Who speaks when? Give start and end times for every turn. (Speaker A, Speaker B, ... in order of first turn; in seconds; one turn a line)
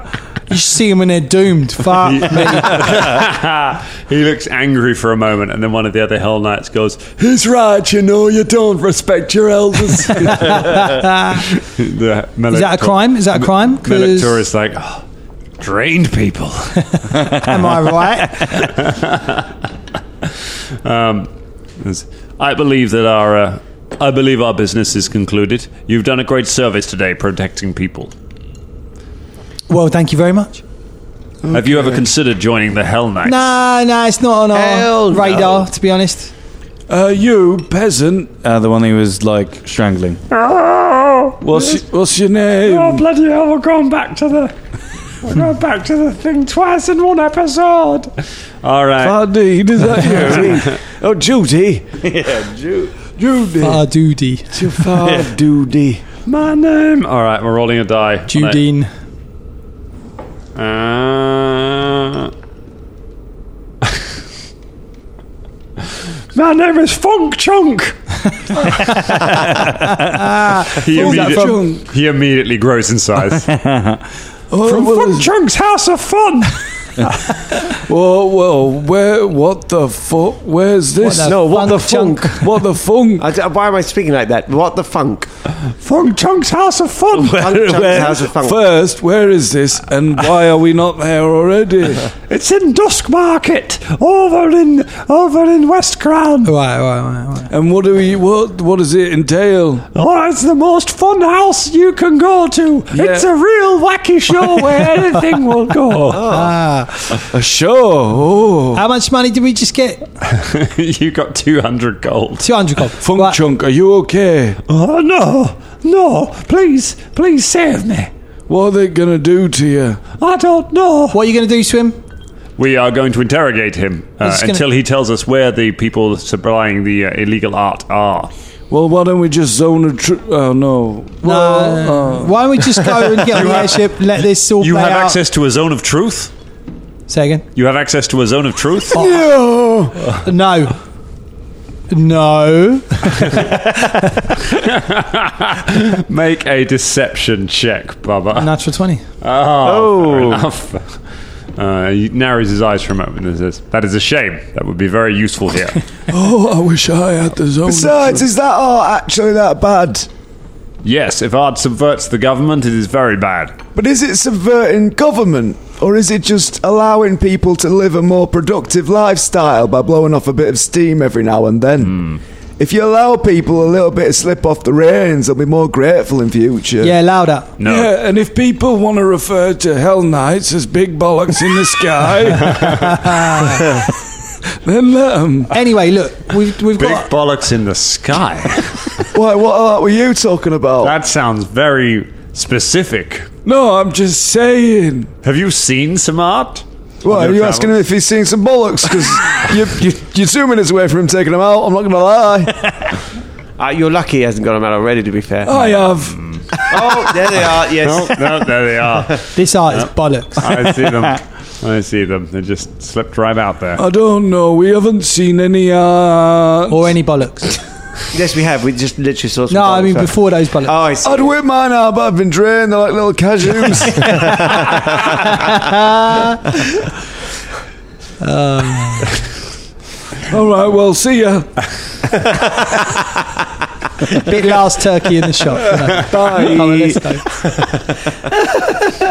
Speaker A: 0.5-3.1
Speaker B: 2.0-15.0
Speaker A: 10.3-11.4
Speaker A: 12.5-14.4
Speaker B: 15.6-16.9
Speaker A: 17.4-18.4
Speaker B: 18.5-19.4
Speaker B: 20.8-28.1
Speaker A: 29.7-30.6
Speaker C: 31.5-32.0
Speaker B: 31.5-33.5
Speaker A: 33.2-36.3
Speaker D: 34.5-35.7
Speaker E: 36.9-38.3
Speaker F: 38.4-40.2
Speaker B: 40.3-41.8
Speaker E: 41.4-43.0
Speaker B: 42.6-44.5
Speaker B: 45.2-49.2
Speaker E: 49.0-50.6
Speaker D: 50.1-51.9
Speaker F: 52.0-53.0
Speaker E: 53.1-53.8
Speaker A: 53.6-54.6
Speaker D: 54.5-56.0
Speaker F: 55.0-55.3
Speaker B: 56.2-58.6
Speaker A: 58.3-58.9
Speaker B: 60.5-62.3
Speaker B: 66.3-68.0
Speaker A: 70.1-71.6
Speaker B: 70.8-73.5
Speaker E: 70.9-71.8
Speaker F: 73.5-73.9
Speaker E: 74.5-75.3
Speaker B: 74.6-77.3
Speaker E: 77.7-81.3
Speaker A: 81.0-82.5
Speaker D: 81.2-82.4
Speaker E: 82.4-83.3
Speaker D: 83.2-85.3
Speaker B: 85.7-87.4
Speaker D: 87.1-88.7
Speaker E: 87.3-92.1
Speaker B: 92.3-96.5
Speaker A: 96.4-97.5
Speaker E: 97.5-99.8
Speaker B: 99.9-106.3
Speaker E: 102.9-103.3
Speaker E: 104.3-104.8
Speaker D: 106.1-106.5
Speaker A: 106.2-107.0
Speaker E: 107.3-108.8
Speaker A: 108.7-110.0
Speaker B: 110.3-112.5
Speaker A: 112.4-113.4
Speaker E: 113.0-114.6
Speaker B: 114.7-118.1
Speaker E: 118.5-120.0
Speaker B: 120.2-121.2
Speaker A: 121.1-122.0
Speaker B: 122.6-128.3
Speaker A: 124.2-124.6
Speaker E: 128.7-132.9
Speaker A: 131.2-135.2
Speaker B: 133.3-133.9
Speaker B: 134.6-136.3
Speaker A: 137.1-137.4
Speaker B: 137.5-139.0
Speaker C: 138.9-140.0
Speaker A: 138.9-139.3
Speaker A: 140.2-140.8
Speaker A: 141.9-143.4
Speaker B: 143.2-148.6
Speaker A: 148.3-149.0
Speaker B: 149.2-151.0
Speaker D: 149.6-150.4
Speaker B: 151.6-155.8
Speaker E: 156.1-158.2
Speaker C: 157.6-160.1
Speaker B: 160.8-163.6
Speaker C: 163.7-172.1
Speaker B: 171.8-172.2
Speaker C: 172.6-176.9
Speaker A: 176.8-177.5
Speaker B: 177.6-177.9
Speaker E: 177.6-183.8
Speaker B: 182.4-182.9
Speaker A: 183.1-183.6
Speaker E: 184.6-185.5
Speaker A: 185.5-187.1
Speaker B: 186.7-189.1
Speaker C: 189.1-190.9
Speaker B: 190.8-193.3
Speaker E: 193.4-195.1
Speaker B: 195.2-197.8
Speaker C: 197.0-202.8
Speaker D: 203.6-205.7
Speaker E: 205.4-206.2
Speaker B: 206.0-206.5
Speaker D: 206.7-208.9
Speaker B: 207.5-213.8
Speaker A: 209.3-210.6
Speaker E: 213.8-216.9
Speaker A: 216.7-217.5
Speaker D: 218.1-221.3
Speaker A: 219.5-220.7
Speaker C: 221.0-224.1
Speaker D: 223.9-225.4
Speaker A: 223.9-226.4
Speaker A: 228.2-229.1
Speaker E: 230.3-231.5
Speaker A: 234.2-237.3
Speaker B: 235.8-236.1
Speaker D: 236.0-237.9